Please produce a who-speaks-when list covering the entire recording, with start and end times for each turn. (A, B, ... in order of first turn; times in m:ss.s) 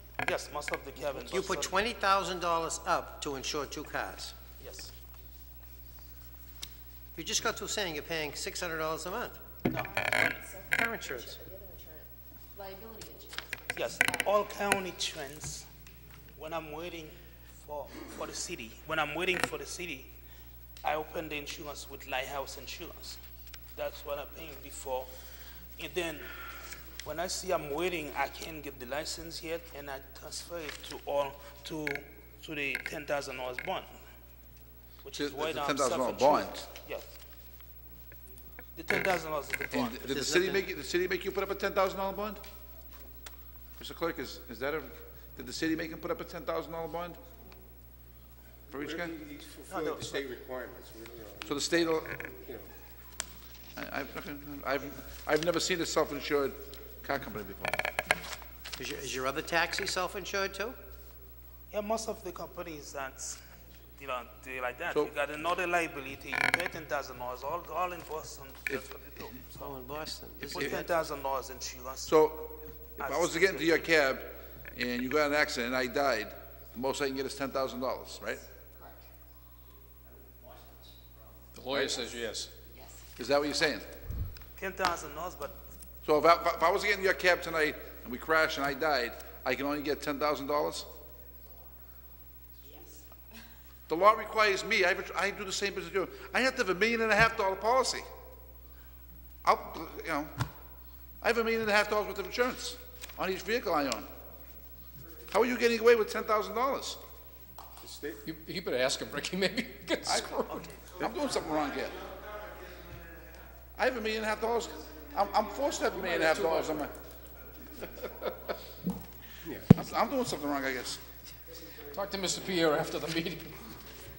0:00.2-0:01.8 A
0:01.2-0:04.3 B
0:04.6-0:04.9 A
0:07.2-0:09.4 B
0:09.7-0:10.4 A
0:09.7-0:14.5 C
0:10.7-0:11.4 B
0:13.7-0:15.7 A
0:16.4-0:20.1 A
0:20.8-0:23.2 A
0:23.8-0:25.1 A
0:25.8-0:26.3 A
0:27.0-0:33.9 A
0:35.0-0:37.1 A
0:35.1-0:36.7 D
0:38.8-0:40.1 A
0:39.7-0:42.4 D
0:40.1-0:40.7 B
0:43.8-0:47.2 D
0:48.7-0:49.1 D
0:48.8-0:52.7 E
0:49.7-0:50.2 A
0:51.4-0:52.2 D
0:53.8-0:57.8 D
0:58.8-1:00.8 B
1:01.7-1:03.4 A
1:04.0-1:09.8 A
1:09.6-1:10.9 B
1:10.4-1:12.1 A
1:12.1-1:18.4 D
1:13.0-1:13.9 A
1:21.6-1:22.5 F
1:21.7-1:22.1 D
1:22.7-1:23.0 C
1:23.2-1:23.9 D
1:24.6-1:25.6 A
1:26.0-1:30.9 D
1:32.7-1:33.0 C
1:33.9-1:38.0 D
1:39.4-1:40.3 D
1:41.2-1:44.1 D
1:45.3-1:47.0 D
1:47.8-1:48.2 E
1:48.2-1:50.6 F
1:50.0-1:50.4 D
1:50.5-1:51.0 A
1:51.0-1:52.0 D
1:53.8-1:56.9 D
1:59.4-1:59.7 E
1:59.7-2:01.0 D
2:01.9-2:03.7 F